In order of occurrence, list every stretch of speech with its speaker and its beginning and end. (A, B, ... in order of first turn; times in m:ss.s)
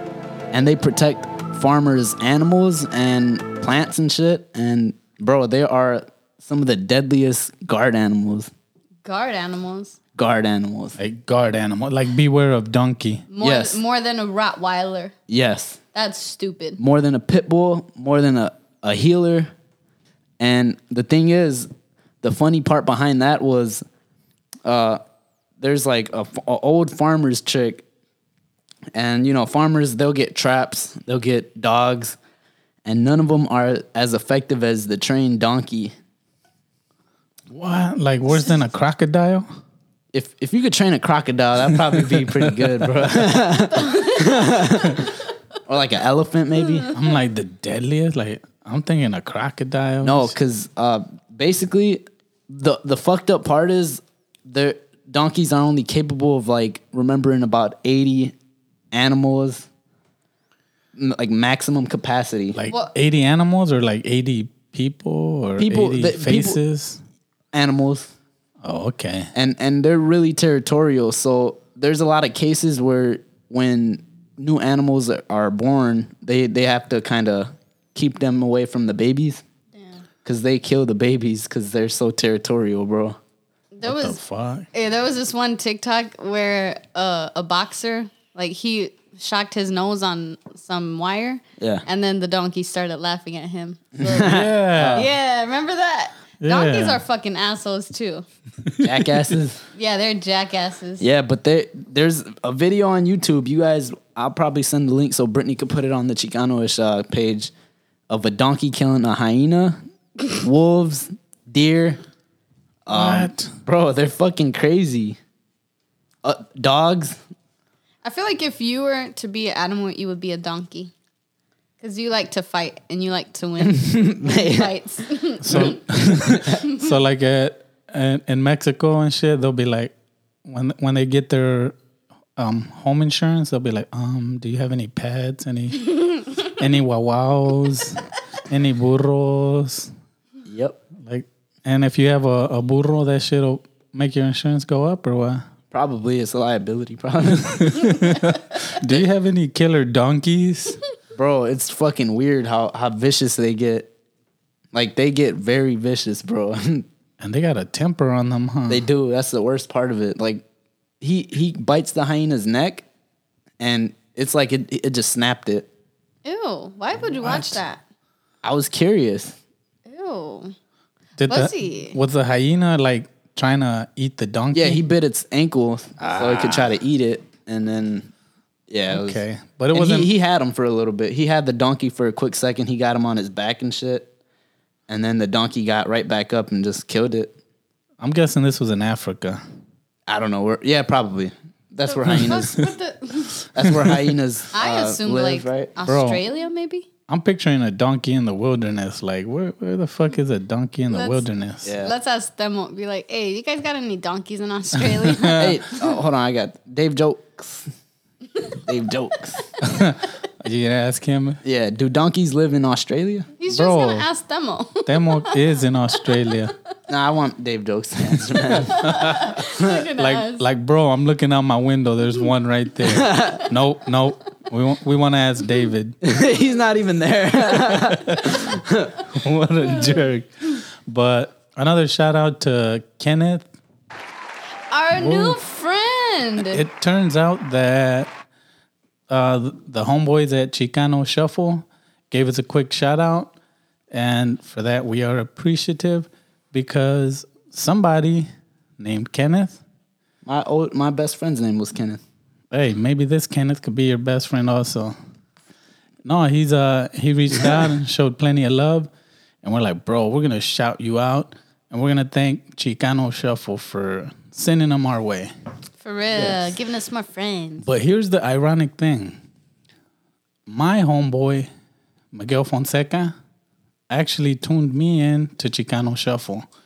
0:00.5-0:08.5 A
0:09.0-0:10.0 B
0:10.1-0:11.0 A
0:11.0-0:13.3 C
0:13.3-0:15.1 B
0:13.4-0:13.8 A
0:15.3-0:15.8 A
0:15.9-0:16.8 B
0:16.8-0:19.5 A
0:20.4-0:21.7 A
0:22.2-0:23.8 A
0:24.6-0:25.0 A
0:25.6-0:27.8 A
0:28.9-0:32.2 A
0:32.8-0:35.9 A
0:37.5-0:39.5 C
0:40.1-0:45.0 A
0:42.0-0:43.2 C
0:45.7-0:46.9 A
0:46.9-0:50.3 C
0:50.0-0:58.3 A
0:58.9-0:59.7 A
1:01.0-1:02.6 A
1:02.5-1:07.0 C
1:05.6-1:06.6 A
1:07.5-1:08.1 A
1:08.6-1:09.3 C
1:09.3-1:19.4 A
1:19.8-1:20.0 B
1:20.2-1:23.2 A
1:23.7-1:24.2 B
1:23.8-1:24.7 C
1:24.7-1:34.4 B
1:34.0-1:35.1 A
1:34.2-1:35.1 C
1:34.9-1:38.2 B
1:36.4-1:37.0 C
1:38.7-1:39.2 C
1:38.8-1:39.6 A
1:39.7-1:41.0 B
1:41.0-1:47.5 A
1:48.1-1:49.8 A
1:50.3-1:52.0 A
1:52.9-1:55.2 A
1:52.9-1:53.5 C
1:56.2-1:57.2 A
1:58.0-2:00.9 B
2:01.8-2:05.8 B
2:03.6-2:04.7 A
2:05.4-2:09.9 C
2:05.5-2:06.6 A
2:10.4-2:11.7 C
2:12.4-2:19.9 C
2:20.4-2:20.8 A
2:21.0-2:25.5 C
2:25.7-2:27.9 A
2:27.5-2:30.8 C
2:31.2-2:33.9 A
2:34.7-2:36.8 A
2:37.2-2:38.9 C
2:38.7-2:40.4 A
2:41.0-2:42.8 A
2:43.6-2:45.7 A
2:46.2-2:47.8 B
2:47.2-2:47.6 C
2:48.4-2:49.4 A
2:49.9-2:50.5 B
2:51.2-2:54.8 C
2:51.3-2:52.0 B
2:54.5-2:58.1 A
2:56.0-2:56.8 C
2:58.7-2:59.2 A
2:58.9-3:00.1 C
2:59.7-3:04.1 A
3:04.9-3:07.3 A
3:08.0-3:09.4 C
3:10.1-3:12.6 A
3:11.8-3:13.4 B
3:13.5-3:15.7 A
3:13.7-3:14.1 C
3:14.5-3:16.8 B
3:15.8-3:16.2 C
3:17.1-3:21.7 C
3:20.9-3:21.2 B
3:21.6-3:21.9 A
3:21.8-3:25.9 B
3:25.0-3:25.5 C
3:25.4-3:27.7 A
3:28.6-3:29.5 A
3:29.7-3:31.4 C
3:31.4-3:33.3 A
3:33.4-3:35.3 B
3:33.5-3:34.1 C
3:34.8-3:36.5 C
3:36.9-3:38.8 A
3:38.6-3:39.3 C
3:38.7-3:40.4 B
3:40.0-3:46.0 C
3:42.8-3:43.4 A
3:46.0-3:49.0 A
3:49.1-3:53.4 C
3:54.7-3:56.6 B
3:55.0-3:55.4 C
3:56.4-3:58.1 C
3:59.1-4:03.3 C
4:03.9-4:09.6 C
4:10.2-4:12.0 A
4:12.5-4:14.9 C
4:16.0-4:18.9 C
4:19.4-4:25.3 C
4:25.8-4:27.6 B
4:27.6-4:29.2 C
4:30.5-4:31.5 C
4:32.1-4:33.1 C
4:33.9-4:36.4 C